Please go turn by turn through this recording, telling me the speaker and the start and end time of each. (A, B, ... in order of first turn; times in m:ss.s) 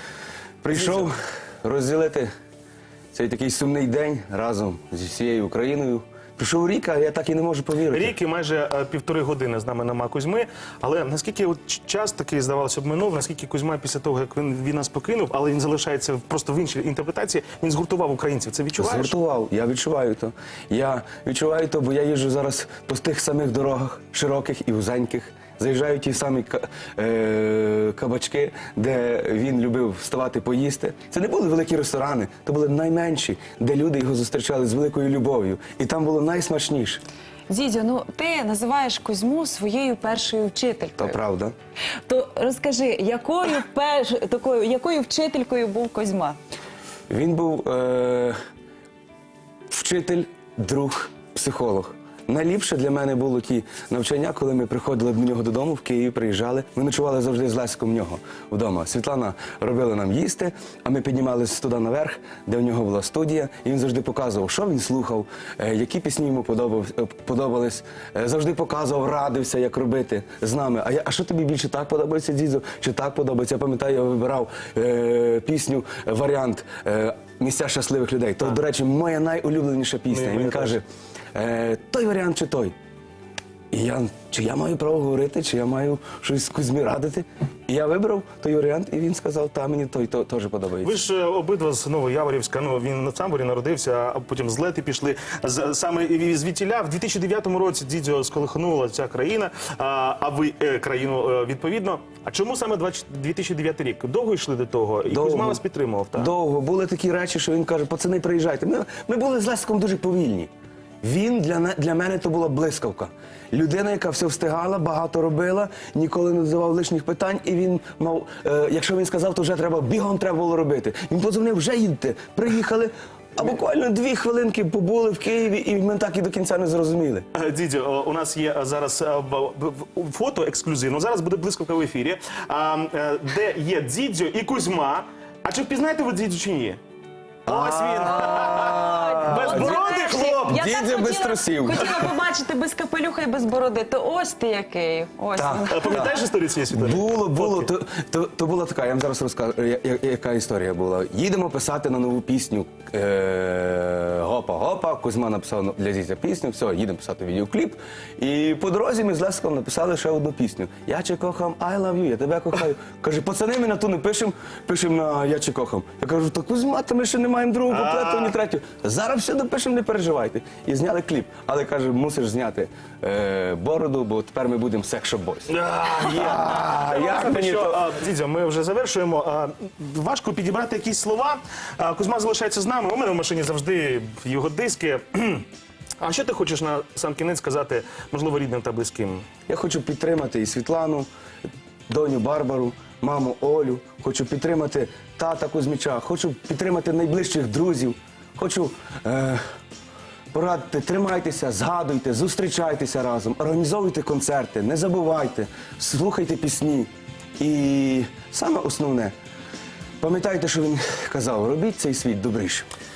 0:00.6-0:02.3 A
0:00.7-0:01.1 B
0:03.1-0:08.1 A
0:07.9-0:19.1 B
0:18.8-0:37.0 A
0:37.5-0:41.2 C
0:41.0-0:41.5 A
0:42.1-0:46.4 C
0:47.1-0:48.4 A
0:49.7-1:22.7 A
1:20.1-1:20.8 B
1:23.7-1:31.0 A
1:30.8-1:46.3 B
1:45.1-1:45.6 A
1:46.1-1:50.5 A
1:51.0-2:07.3 A
2:07.3-2:16.8 B
2:17.4-2:20.6 B
2:17.5-2:22.1 A
2:18.1-2:26.2 C
2:25.4-2:26.1 A
2:25.7-2:27.7 B
2:26.7-2:57.8 A
2:47.7-2:48.3 B
2:55.5-3:05.4 B
3:06.0-3:09.2 B
3:09.5-3:11.1 A
3:11.9-3:19.4 A
3:20.3-3:29.1 A
3:30.0-3:32.7 A